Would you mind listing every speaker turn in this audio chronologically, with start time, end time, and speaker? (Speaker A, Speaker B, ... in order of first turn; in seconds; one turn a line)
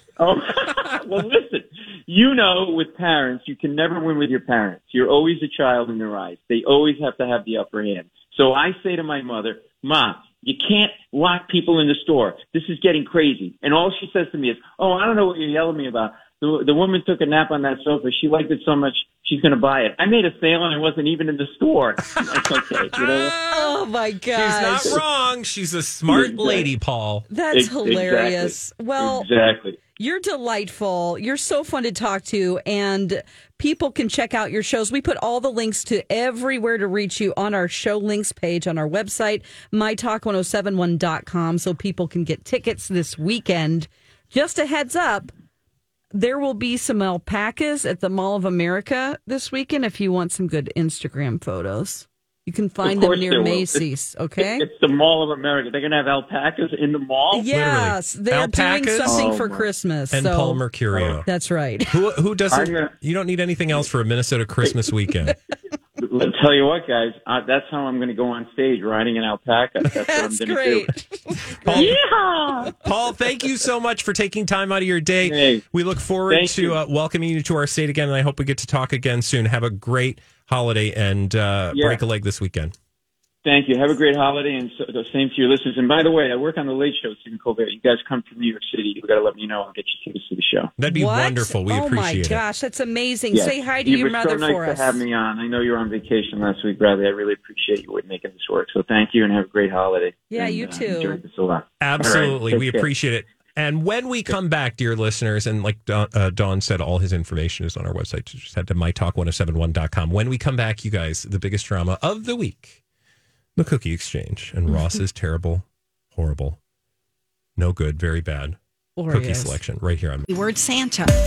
Speaker A: 0.2-23.4
Speaker B: 22.9-23.8
Speaker C: 23.5-25.0
Speaker B: 24.3-27.3
Speaker A: 26.1-26.7
Speaker C: 27.3-29.3
Speaker A: 27.5-29.8
Speaker C: 30.0-45.3
Speaker C: 46.1-54.6
Speaker A: 52.8-53.9
Speaker A: 54.4-57.5
Speaker C: 57.3-60.6
Speaker B: 57.5-59.3
Speaker A: 59.0-59.7
Speaker B: 60.1-61.3
Speaker A: 60.9-61.2
Speaker C: 61.3-61.9
Speaker B: 61.9-65.4
Speaker A: 62.5-62.9
Speaker A: 66.0-70.9
Speaker C: 69.9-72.0
Speaker B: 71.5-72.0
Speaker A: 71.7-72.8
Speaker B: 72.8-82.7
Speaker A: 75.2-75.6
Speaker A: 76.3-76.8
Speaker A: 81.7-82.0
Speaker A: 83.4-90.7
Speaker B: 90.8-92.4
Speaker C: 90.9-95.0
Speaker A: 93.3-102.9
Speaker C: 100.3-101.2
Speaker B: 101.8-112.8
Speaker B: 113.6-116.6
Speaker B: 117.6-118.6
Speaker C: 119.0-119.6
Speaker B: 119.1-120.3